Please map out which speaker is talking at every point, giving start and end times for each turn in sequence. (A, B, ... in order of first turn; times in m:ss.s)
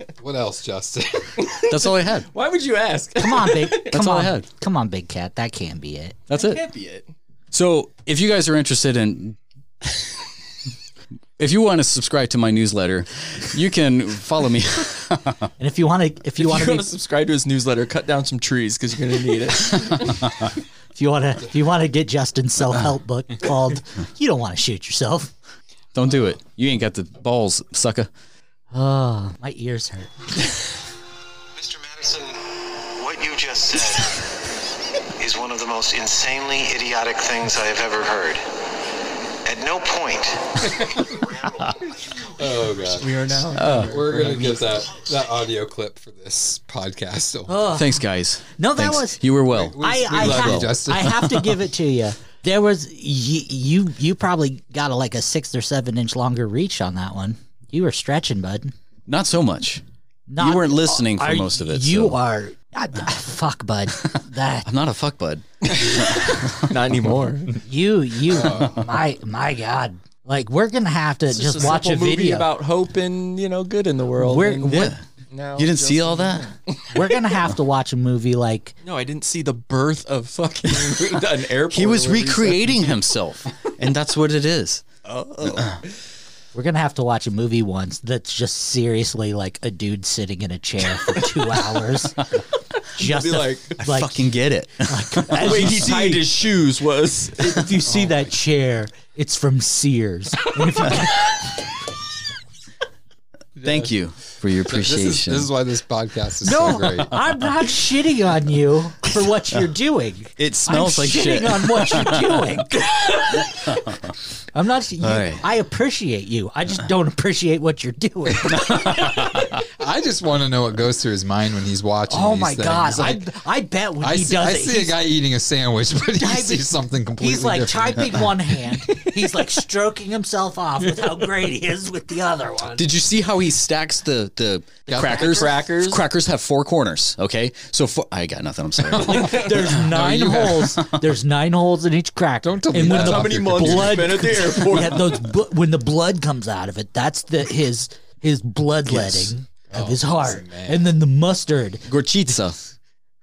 0:00.2-0:01.4 A
0:01.4-0:04.0 B
0:01.7-0:02.3 C
0:03.2-0:06.2 D
0:03.9-0:04.5 C
0:06.3-0:06.6 C
0:06.3-0:07.1 B
0:07.5-0:09.4 C
0:11.4-0:15.5 C
0:15.6-0:16.9 D
0:16.4-0:20.3 B
0:20.9-0:25.3 D
0:25.9-0:28.1 C
0:28.7-0:30.4 D
0:31.6-0:34.2 E
0:35.2-0:38.4 E
0:39.4-0:40.6 E
0:40.7-0:41.2 A
0:42.2-0:47.7 A
0:42.9-0:44.7 B
0:43.5-0:44.1 C
0:47.5-0:48.0 D
0:47.7-0:51.6 C
0:48.6-0:49.2 D
0:49.5-0:51.2 A
0:49.8-0:58.7 D
0:59.1-0:59.8 C
1:00.3-1:04.7 D
1:00.4-1:02.2 C
1:04.0-1:06.8 C
1:05.6-1:07.6 B
1:07.6-1:12.5 D
1:08.3-1:08.8 A
1:11.3-1:17.2 B
1:14.2-1:15.0 D
1:14.7-1:15.0 C
1:15.6-1:16.5 C
1:16.9-1:18.7 D
1:18.8-1:23.0 B
1:21.7-1:24.8 C
1:25.1-1:25.9 B
1:25.4-1:25.8 C
1:26.5-1:32.3 D
1:33.0-1:33.8 B
1:33.0-1:34.2 D
1:33.8-1:35.8 C
1:34.8-1:36.2 D
1:35.4-1:38.0 B
1:37.4-1:41.4 D
1:43.6-1:45.5 C
1:44.7-1:47.2 A
1:46.4-1:54.0 D
1:50.4-1:52.5 C
1:54.5-1:58.8 D
1:55.0-1:55.4 C
1:58.4-2:03.3 A
1:58.5-1:59.5 C
2:02.1-2:05.0 D
2:04.0-2:08.4 A
2:06.2-2:12.9 D
2:12.8-2:19.6 C
2:14.9-2:15.3 A
2:15.0-2:16.0 B
2:15.1-2:15.4 D
2:18.9-2:20.8 A
2:19.1-2:31.9 D
2:22.4-2:24.3 A
2:22.8-2:25.2 B
2:29.7-2:31.0 A
2:31.9-2:32.6 C